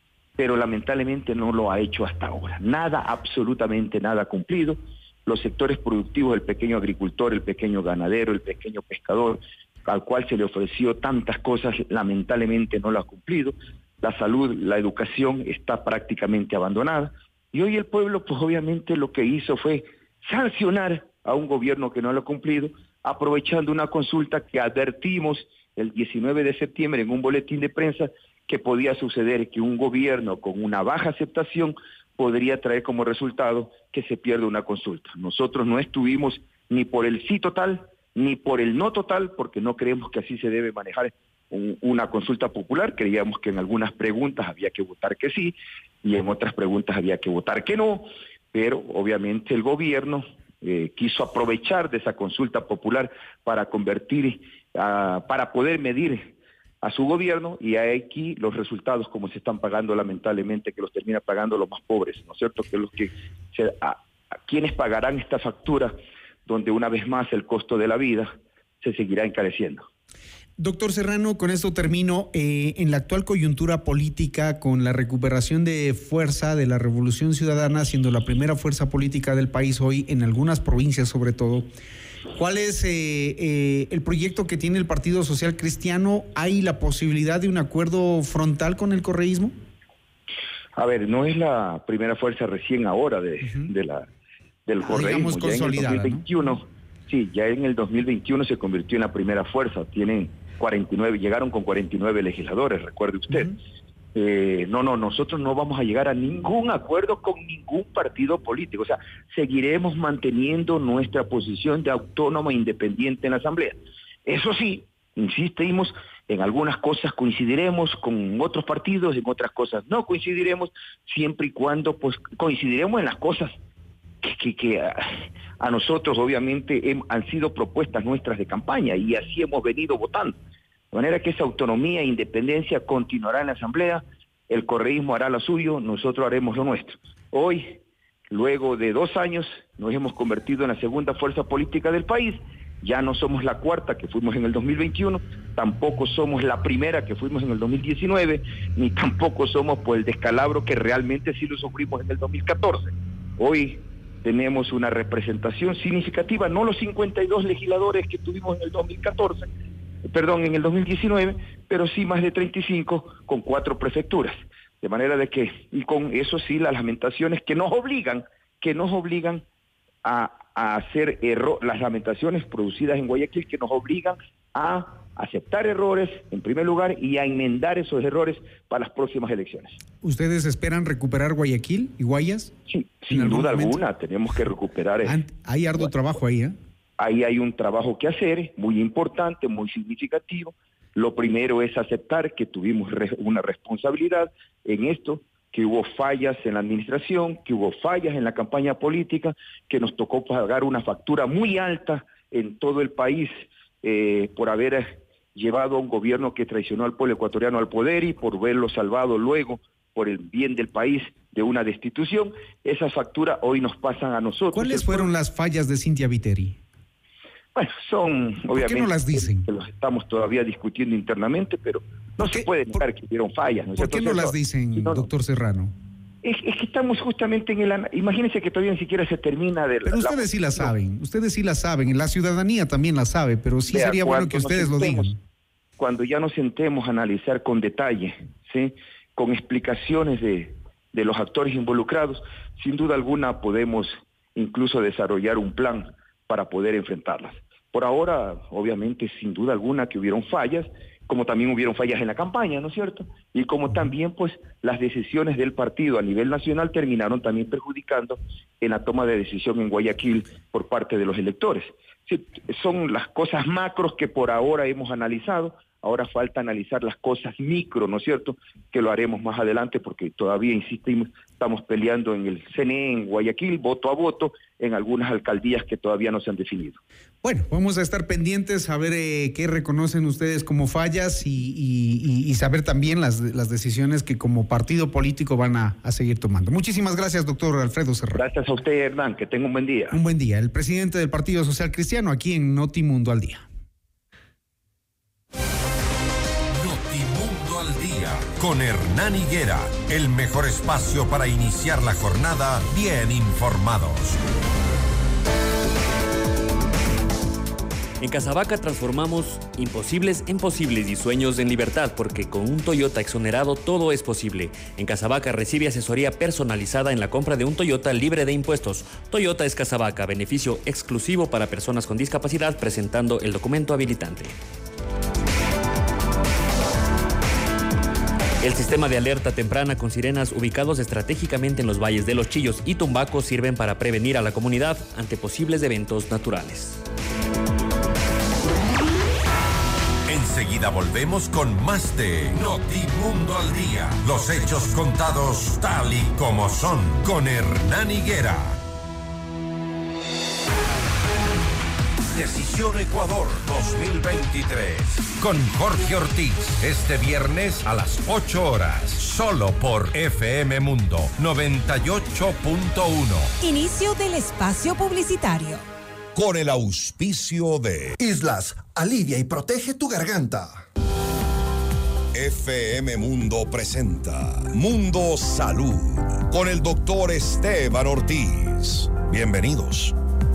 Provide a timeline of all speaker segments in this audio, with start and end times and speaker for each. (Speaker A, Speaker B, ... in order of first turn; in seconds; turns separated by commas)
Speaker A: 0.4-65.9, Speaker A: 66.5-69.8, Speaker B: 70.6-81.7, Speaker B: 82.3-89.5, Speaker A: 90.8-94.0, Speaker A: 94.7-103.5, Speaker B: 94.8-96.2, Speaker A: 104.1-123.5, Speaker A: 124.2-125.1, Speaker A: 125.6-130.4, Speaker A: 130.9-159.5, Speaker A: 160.1-169.4, Speaker A: 170.0-179.8, Speaker B: 180.0-182.5, Speaker A: 182.7-185.2, Speaker B: 183.1-183.8, Speaker B: 185.1-186.6, Speaker A: 187.0-215.1, Speaker B: 214.5-216.6, Speaker A: 217.5-225.1, Speaker B: 218.6-219.4, Speaker B: 222.2-222.8, Speaker B: 223.8-225.7, Speaker A: 226.2-230.7, Speaker B: 229.8-235.2, Speaker A: 233.7-235.1, Speaker A: 235.8-276.8, Speaker B: 277.2-288.2, Speaker A: 288.1-289.9, Speaker B: 289.9-293.4, Speaker C: 296.5-304.2, Speaker D: 308.0-324.3, Speaker D: 328.4-336.8, Speaker C: 340.1-348.6, Speaker C: 352.1-363.3, Speaker E: 363.4-365.6, Speaker F: 366.1-367.9, Speaker G: 368.0-370.4, Speaker F: 372.1-379.9